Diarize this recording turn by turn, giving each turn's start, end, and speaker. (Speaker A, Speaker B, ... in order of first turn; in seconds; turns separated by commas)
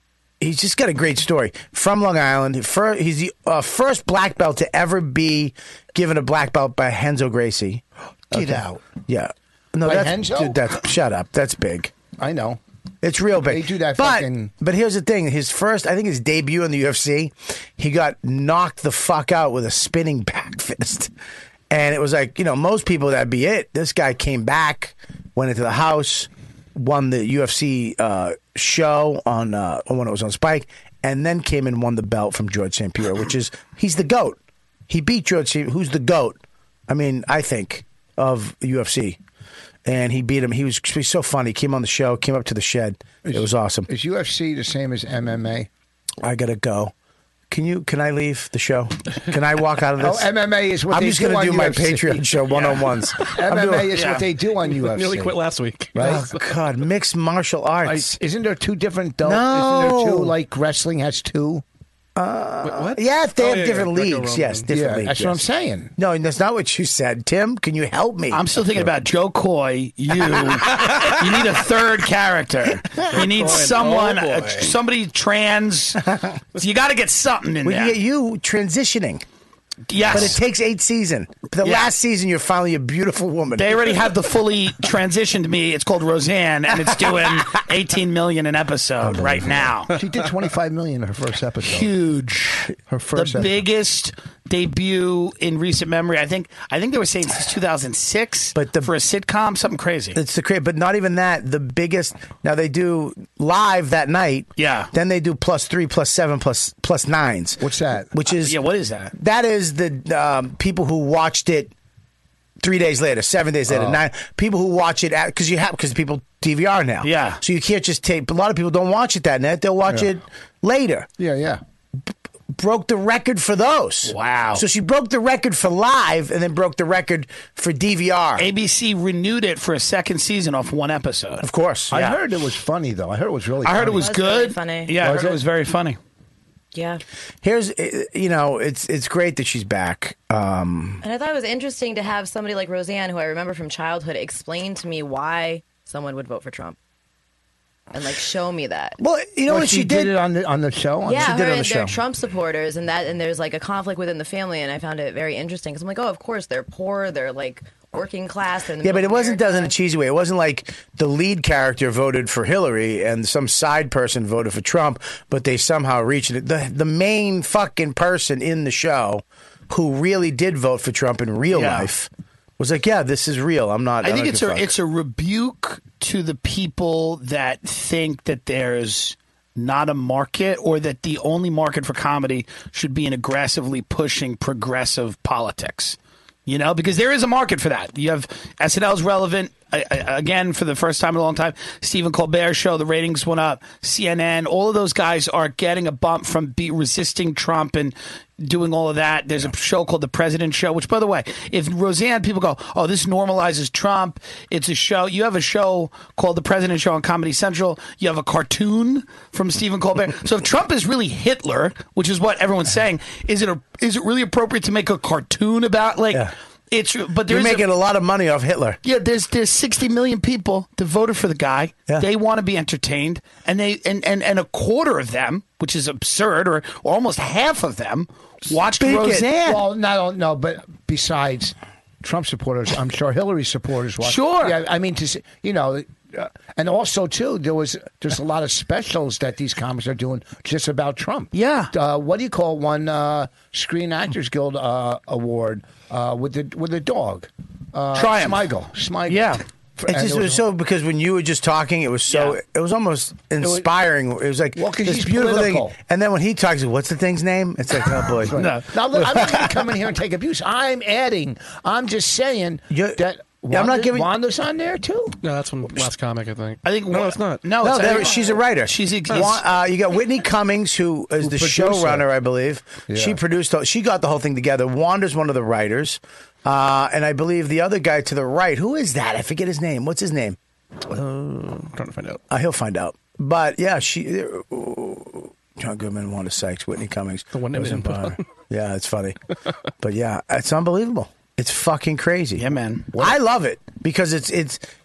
Speaker A: 0.4-11.9, Speaker B: 8.3-8.8, Speaker B: 9.8-10.6, Speaker B: 12.2-12.6, Speaker A: 13.0-21.1, Speaker B: 13.4-14.5, Speaker A: 21.7-34.4, Speaker A: 34.9-39.2, Speaker A: 39.9-43.9, Speaker B: 43.2-45.7, Speaker A: 46.2-46.9, Speaker A: 47.5-50.3, Speaker B: 50.0-52.3, Speaker A: 50.9-54.0, Speaker C: 52.5-52.9, Speaker B: 53.3-55.4, Speaker C: 53.9-54.2, Speaker D: 54.6-56.4, Speaker B: 56.0-56.2, Speaker A: 56.0-58.2, Speaker B: 57.9-61.6, Speaker A: 59.2-60.4, Speaker A: 62.2-65.4, Speaker D: 62.6-64.7, Speaker B: 64.7-65.9, Speaker A: 66.0-68.4, Speaker C: 68.3-78.0, Speaker D: 73.1-74.7, Speaker A: 77.6-79.2, Speaker C: 79.9-80.4, Speaker A: 80.1-83.9, Speaker C: 81.6-81.9, Speaker C: 83.6-90.0, Speaker A: 89.0-89.7, Speaker B: 89.9-91.9, Speaker C: 91.6-100.2, Speaker B: 92.9-93.5, Speaker A: 98.5-98.9, Speaker A: 100.1-108.6, Speaker C: 104.6-104.9, Speaker B: 107.6-108.1, Speaker C: 108.4-109.1, Speaker A: 109.1-111.7, Speaker A: 112.6-121.1, Speaker B: 113.7-114.0, Speaker C: 117.0-117.4, Speaker B: 121.2-121.6, Speaker A: 122.5-128.5, Speaker C: 124.1-124.6, Speaker C: 128.4-132.2, Speaker A: 131.4-131.9, Speaker B: 131.9-134.1, Speaker C: 133.6-136.0, Speaker E: 134.0-135.2, Speaker B: 135.0-135.4, Speaker E: 136.7-137.0, Speaker A: 137.4-141.0, Speaker E: 141.0-146.8, Speaker E: 147.9-149.0, Speaker A: 149.0-150.2, Speaker B: 149.5-151.4, Speaker E: 151.1-159.7, Speaker A: 151.2-152.0, Speaker A: 158.8-174.8, Speaker C: 171.5-171.9, Speaker C: 174.0-217.7, Speaker A: 217.3-218.8, Speaker C: 218.8-229.3, Speaker A: 228.8-229.6, Speaker B: 229.4-250.4, Speaker C: 234.0-234.6, Speaker C: 241.3-241.7, Speaker C: 247.9-248.4, Speaker C: 249.1-249.4, Speaker A: 249.9-258.4, Speaker C: 252.1-252.4, Speaker B: 253.4-253.7, Speaker B: 254.6-255.8, Speaker B: 258.2-265.2, Speaker C: 258.4-258.7, Speaker A: 259.0-259.4, Speaker A: 262.7-264.1, Speaker D: 265.2-267.5, Speaker C: 266.6-269.4, Speaker A: 267.6-280.4, Speaker B: 271.2-272.1, Speaker B: 272.9-273.2, Speaker D: 280.9-282.2, Speaker A: 282.3-289.2, Speaker D: 287.3-288.2, Speaker A: 289.8-292.4, Speaker C: 292.4-292.9, Speaker A: 293.0-294.6